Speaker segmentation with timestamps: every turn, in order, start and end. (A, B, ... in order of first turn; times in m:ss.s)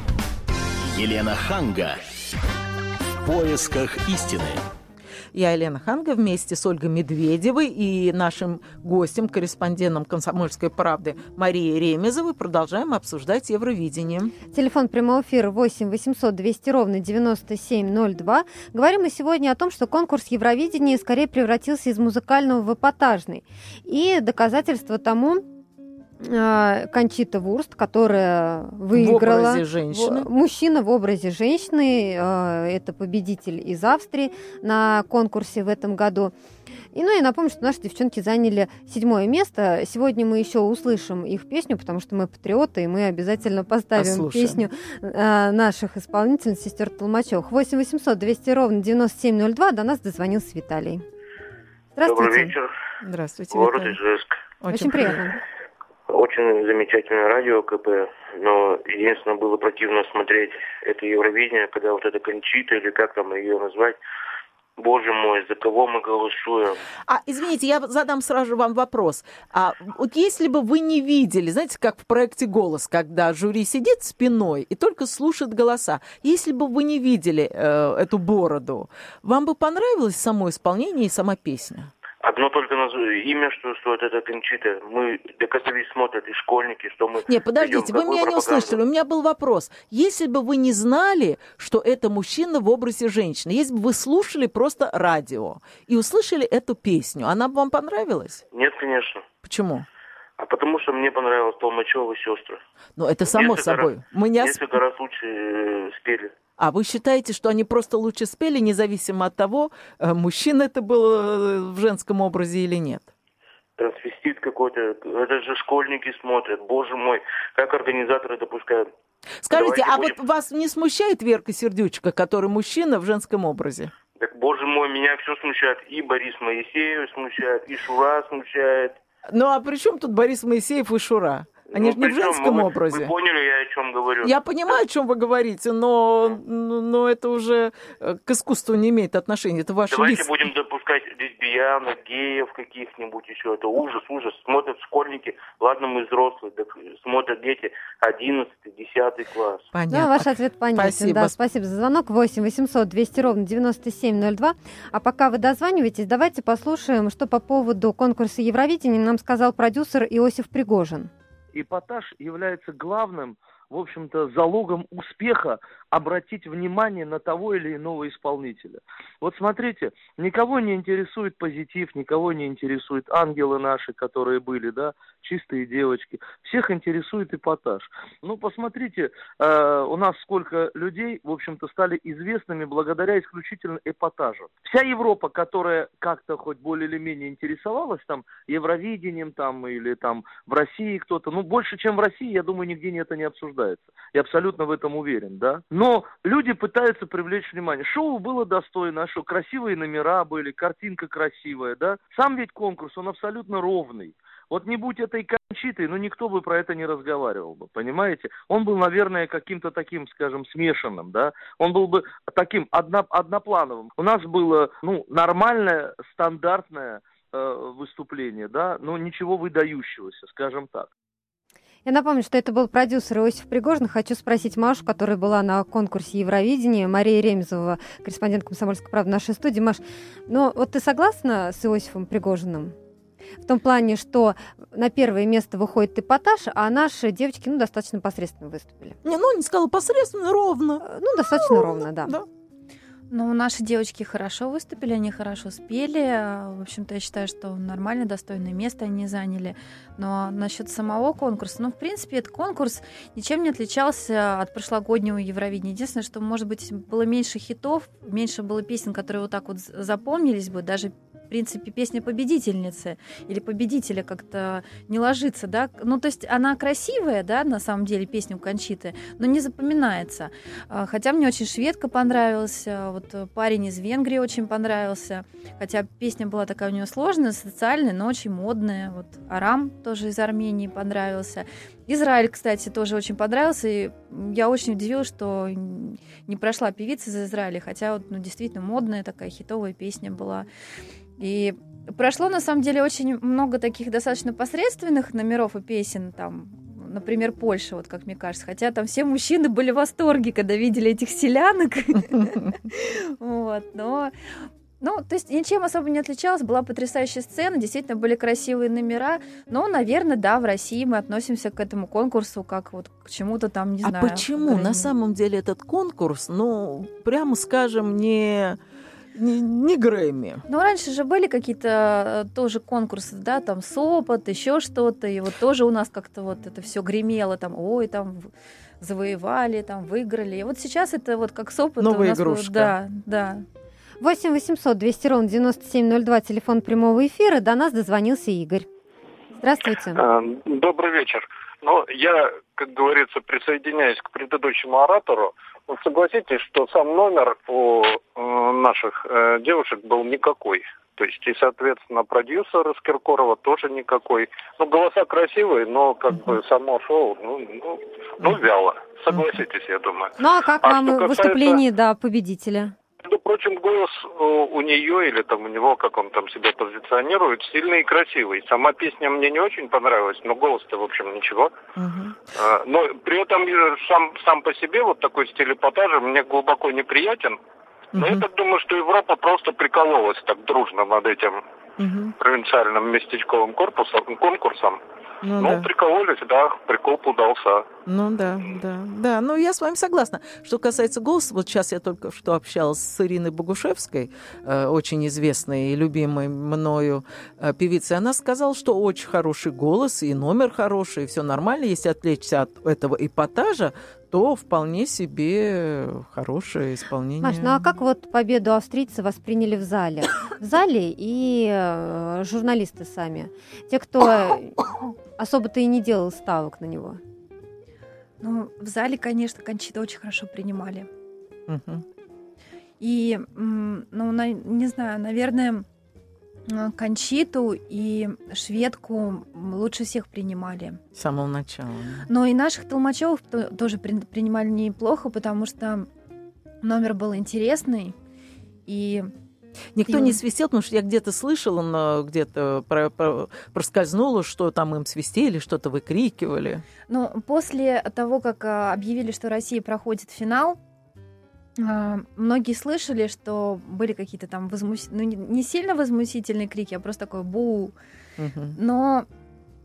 0:00.8-0:02.0 A
0:03.2-0:04.6 A
0:05.3-0:14.4 B
0:14.5-0:25.4 C
0:26.2-0:36.3 C
0:28.9-0:30.3 B
0:36.9-0:51.0 C
0:44.0-0:44.6 B
0:52.0-0:52.5 C
0:52.0-0:52.7 D
0:53.0-0:54.0 B
0:53.5-0:54.4 D
0:54.6-0:55.2 B
0:54.7-0:55.4 C
0:56.1-1:04.0 D
1:04.8-1:06.8 D
1:07.1-1:21.9 B
1:22.2-1:28.8 D
1:27.3-1:38.4 B
1:38.5-1:39.3 D
1:39.4-1:39.8 B
1:40.4-1:42.6 D
1:43.0-1:44.7 B
1:43.3-1:46.4 D
1:46.6-1:53.1 B
1:53.8-1:58.9 D
1:59.4-2:03.9 B
1:59.5-2:00.2 D
2:04.2-2:09.0 D
2:09.3-2:13.1 B
2:11.7-2:14.8 D
2:14.2-2:20.5 B
2:19.9-2:29.7 D
2:29.7-2:31.4 B
2:29.9-2:41.1 C
2:41.5-3:40.9 E
3:41.8-3:52.8 C
3:53.4-3:59.0 C
3:59.0-4:02.3 B
4:00.8-4:02.2 C
4:03.1-4:50.5 F
4:51.2-5:04.1 F
5:04.8-5:14.9 F
5:13.8-5:18.6 B
5:19.1-5:20.4 B
5:20.5-5:33.4 F
5:31.8-5:32.8 B
5:34.0-5:38.7 C
5:39.4-5:40.0 C
5:40.0-6:01.6 G
6:00.2-6:02.7 C
6:03.0-6:11.6 G
6:11.8-6:12.2 B
6:12.4-6:17.4 G
6:18.0-6:18.2 B
6:18.0-6:21.4 G
6:21.8-6:22.2 B
6:22.2-6:24.8 G
6:25.2-6:25.7 B
6:25.4-6:27.7 G
6:27.9-6:47.6 B
6:47.2-6:54.6 C
6:55.2-6:57.0 C
6:58.2-7:00.9 F
7:01.5-7:01.8 B
7:02.8-7:05.6 F
7:06.5-7:10.8 F
7:11.0-7:12.1 B
7:12.1-7:15.9 F
7:16.6-7:18.0 F
7:18.7-7:19.1 F
7:19.8-7:26.6 B
7:19.9-7:20.2 F
7:26.9-7:30.6 F
7:31.6-7:37.7 F
7:38.2-7:38.6 B
7:38.6-7:39.1 F